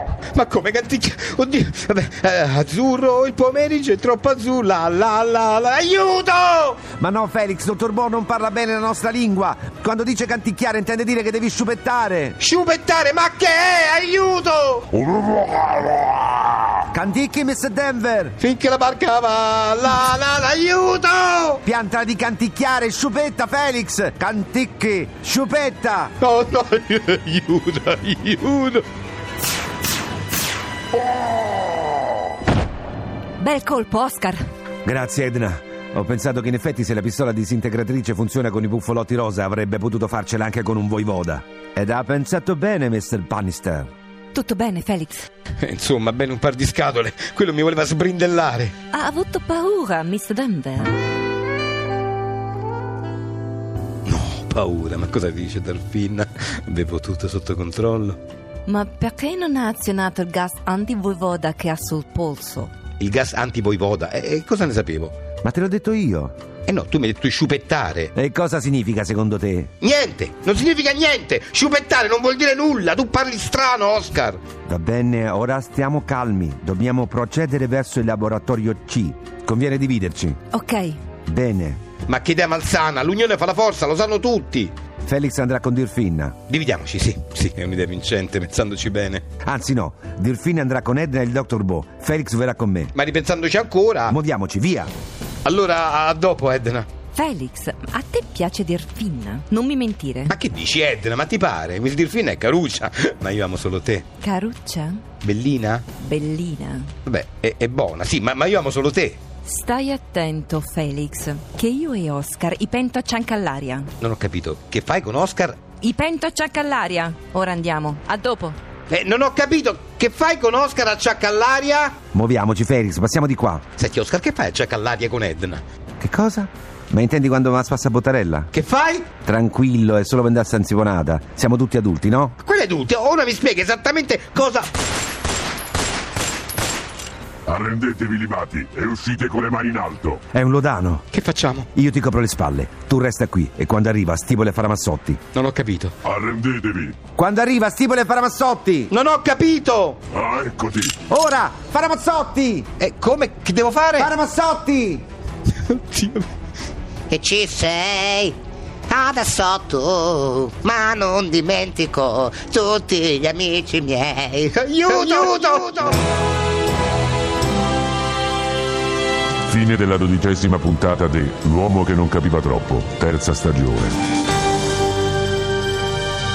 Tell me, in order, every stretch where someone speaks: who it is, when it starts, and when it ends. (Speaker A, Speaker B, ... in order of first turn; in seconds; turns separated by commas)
Speaker A: 0.3-6.8, Speaker B: 6.9-12.4, Speaker A: 12.4-14.8, Speaker C: 14.9-16.3, Speaker B: 16.9-18.3, Speaker A: 18.4-21.6, Speaker B: 21.6-26.1, Speaker A: 26.2-28.8, Speaker D: 33.4-34.4, Speaker B: 34.8-43.9, Speaker D: 44.3-45.3, Speaker A: 45.6-48.7, Speaker D: 48.9-50.9, Speaker A: 54.0-58.2, Speaker D: 58.7-62.7, Speaker A: 63.0-65.1, Speaker B: 65.4-66.3, Speaker A: 66.7-68.1, Speaker B: 68.1-69.7, Speaker A: 69.8-74.4, Speaker B: 74.6-80.4, Speaker D: 80.5-81.0, Speaker B: 81.3-81.8, Speaker A: 82.1-84.7, Speaker B: 85.0-86.4, Speaker A: 86.5-89.2, Speaker B: 89.4-92.9, Speaker A: 92.9-94.2, Speaker B: 94.1-94.9, Speaker A: 95.4-96.9, Speaker D: 97.1-100.3, Speaker A: 100.3-104.0, Speaker D: 104.2-105.0, Speaker A: 105.2-105.8, Speaker D: 106.0-106.9, Speaker A: 107.0-109.2, Speaker D: 109.5-113.9, Speaker A: 114.0-115.6, Speaker D: 115.8-118.6, Speaker A: 118.9-122.0, Speaker B: 122.1-123.6, Speaker A: 123.8-125.6, Speaker B: 126.0-128.5, Speaker A: 128.5-129.1, Speaker B: 129.2-132.3, Speaker A: 132.4-134.7, Speaker C: 137.5-140.2, Speaker B: 140.3-141.0, Speaker A: 141.1-141.7, Speaker B: 141.7-145.2, Speaker A: 145.3-145.9, Speaker C: 146.0-146.9, Speaker B: 147.2-148.9, Speaker A: 148.9-150.0, Speaker C: 150.1-150.9, Speaker B: 151.1-152.7, Speaker A: 152.8-154.1, Speaker B: 154.0-155.0, Speaker A: 155.7-156.3, Speaker E: 157.1-158.3, Speaker E: 158.9-165.8, Speaker A: 164.6-165.9, Speaker C: 169.5-173.9